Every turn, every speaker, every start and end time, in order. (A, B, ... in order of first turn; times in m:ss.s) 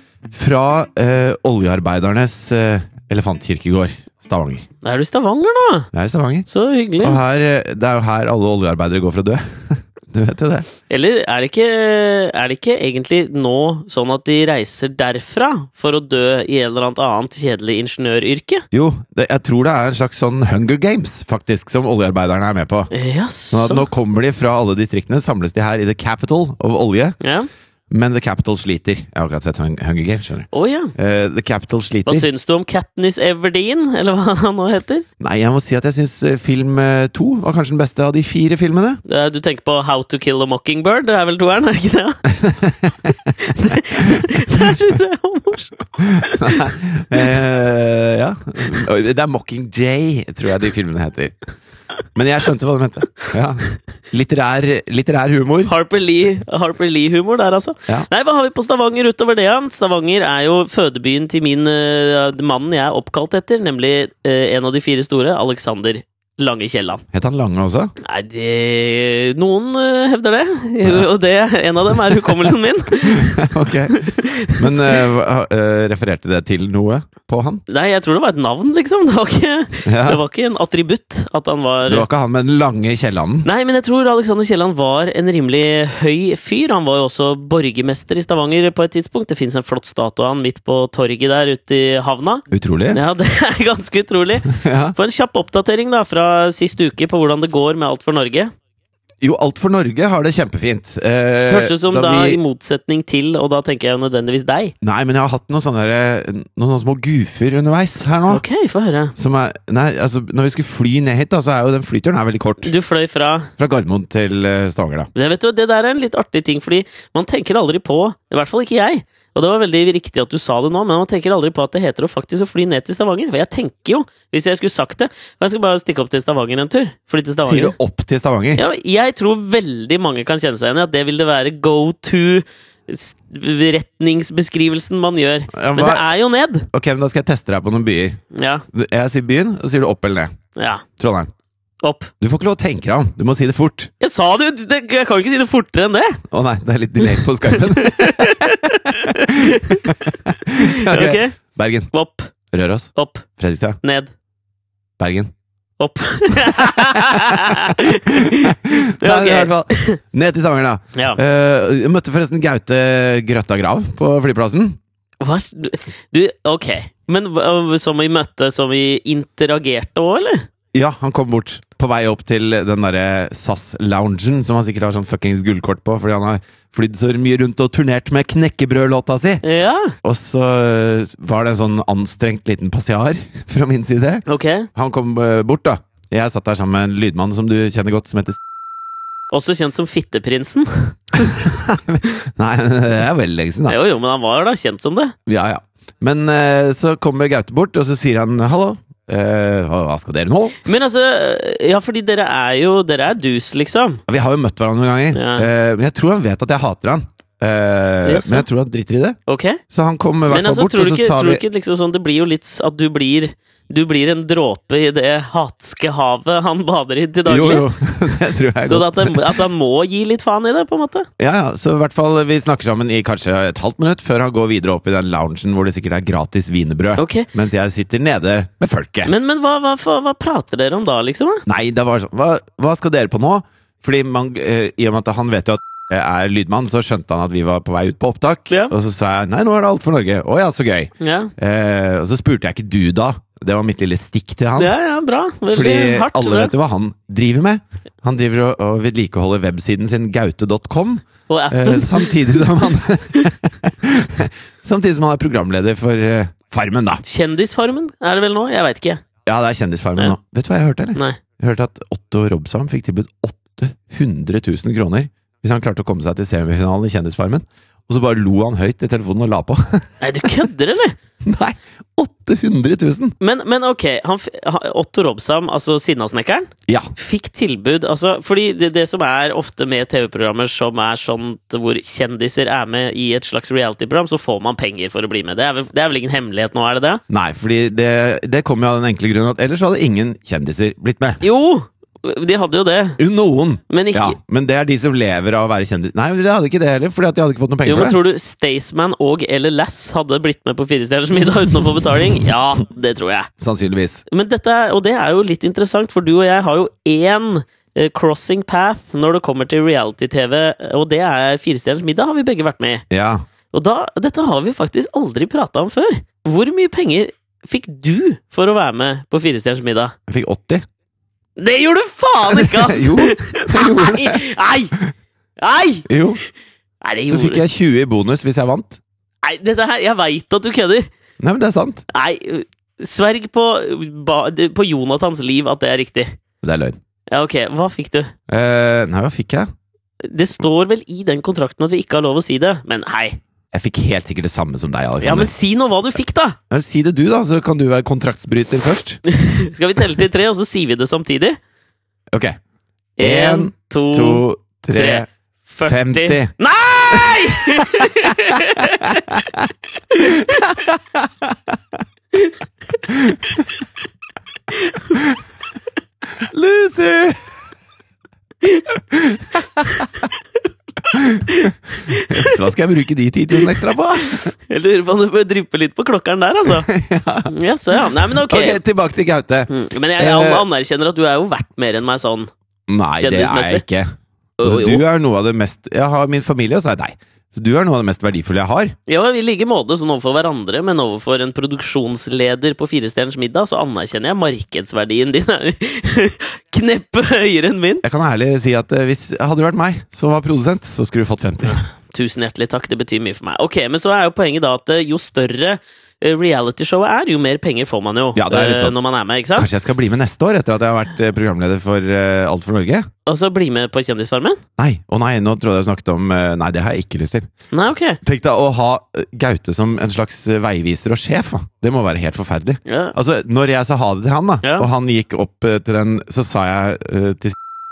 0:00.3-0:04.6 A
0:04.8-0:05.9 B
0:05.9-0:06.5 A
0:06.5-0:07.2 B
0:07.0-0:10.7 A
0:10.9-0:18.6 B
0:18.7-0:22.9 A
0:22.9-0:23.9 B
0:23.5-0:27.2 A
0:27.2-0:27.5 B
0:27.9-0:32.2 A
0:30.5-0:30.9 B
0:32.1-0:35.0 B
0:35.2-0:39.0 A
0:39.0-0:42.3 B
0:42.3-0:44.7 A
0:43.4-0:46.7 B
0:46.0-0:51.3 A
0:52.1-0:55.7 A
0:55.6-1:07.0 B
1:07.1-1:07.9 A
1:08.0-1:15.0 B
1:12.1-1:12.4 A
1:13.1-1:17.6 A
1:17.7-1:22.0 B
1:19.8-1:20.2 A
1:21.9-1:23.5 A
1:23.4-1:38.5 B
1:32.5-1:33.0 A
1:34.5-1:34.9 A
1:39.2-1:42.4 A
1:41.5-1:44.7 B
1:44.8-1:48.4 A
1:48.3-1:49.1 B
1:49.2-1:52.7 A
1:52.6-1:53.5 B
1:53.6-1:55.1 A
1:55.1-2:07.7 B
2:07.4-2:08.6 A
2:08.5-2:16.7 B
2:15.5-2:16.1 A
2:16.7-2:20.4 A
2:18.3-2:18.6 B
2:20.5-2:20.8 B
2:21.0-2:21.3 A
2:21.8-2:22.1 B
2:22.2-2:23.9 A
2:24.0-2:26.2 B
2:26.3-2:31.9 A
2:27.0-2:30.0 B
2:30.5-2:31.4 B
2:31.9-2:32.3 B
2:32.5-2:33.8 A
2:32.9-2:33.3 B
2:33.8-2:34.1 B
2:35.0-2:35.3 A
2:35.8-2:40.0 B
2:36.5-2:44.8 A
2:45.2-2:50.5 B
2:50.7-2:59.4 A
2:59.4-2:59.9 B
3:00.0-3:08.4 A
3:04.3-3:04.7 B
3:09.3-3:11.5 B
3:11.2-3:13.8 A
3:13.7-3:15.1 B
3:15.2-3:20.6 A
3:20.6-3:24.0 B
3:24.1-3:31.4 A
3:25.1-3:25.4 B
3:28.0-3:28.5 B
3:29.3-3:29.6 B
3:30.3-3:37.7 B
3:37.2-3:39.4 A
3:38.6-3:41.1 B
3:41.2-3:49.1 A
3:47.0-3:47.3 B
3:49.0-3:51.4 B
3:51.4-4:04.7 A
4:01.0-4:01.3 B
4:04.6-4:06.5 B
4:05.5-4:17.0 A
4:11.3-4:12.5 B
4:17.0-4:19.0 B
4:19.2-4:30.4 A
4:30.0-4:31.0 B
4:31.2-4:33.2 A
4:33.2-4:47.0 B
4:47.1-4:51.2 A
4:51.2-4:53.0 B
4:53.0-4:58.0 A
4:53.7-4:54.2 B
4:57.6-5:03.3 B
5:03.4-5:04.0 A
5:04.1-5:12.8 B
5:12.9-5:13.2 A
5:13.5-5:19.9 B
5:20.1-5:20.6 A
5:21.4-5:24.7 B
5:22.3-5:24.2 A
5:25.4-5:25.9 B
5:25.9-5:26.2 A
5:26.8-5:27.4 B
5:27.1-5:28.8 A
5:29.2-5:30.9 B
5:31.2-5:31.8 A
5:31.9-5:36.2 B
5:36.4-5:36.8 A
5:37.1-5:38.1 B
5:38.3-5:39.5 A
5:40.0-5:43.2 B
5:43.5-5:45.3 A
5:45.0-5:46.4 B
5:46.5-5:49.0 A
5:49.1-5:51.4 B
5:52.1-5:52.4 A
5:53.0-5:59.1 B
5:53.0-5:55.1 A
5:55.6-5:56.3 A
5:56.9-6:01.6 A
5:59.9-6:00.5 B
6:02.9-6:03.2 A
6:04.5-6:04.9 B
6:06.2-6:07.2 A
6:08.9-6:10.0 A
6:10.9-6:14.3 A
6:11.3-6:12.4 B
6:13.5-6:16.7 B
6:16.5-6:17.3 A
6:17.3-6:18.6 B
6:18.0-6:20.4 A
6:19.5-6:22.3 B
6:22.7-6:28.8 A
6:23.0-6:23.6 B
6:24.4-6:24.8 B
6:28.9-6:37.8 B
6:37.8-6:41.6 A
6:41.5-6:49.5 B
6:48.1-6:48.7 A
6:49.4-6:52.9 A
6:53.0-6:54.4 B
6:54.6-6:57.3 A
6:57.5-6:58.0 B
6:58.0-7:07.4 A
7:02.6-7:02.9 B
7:04.4-7:04.7 B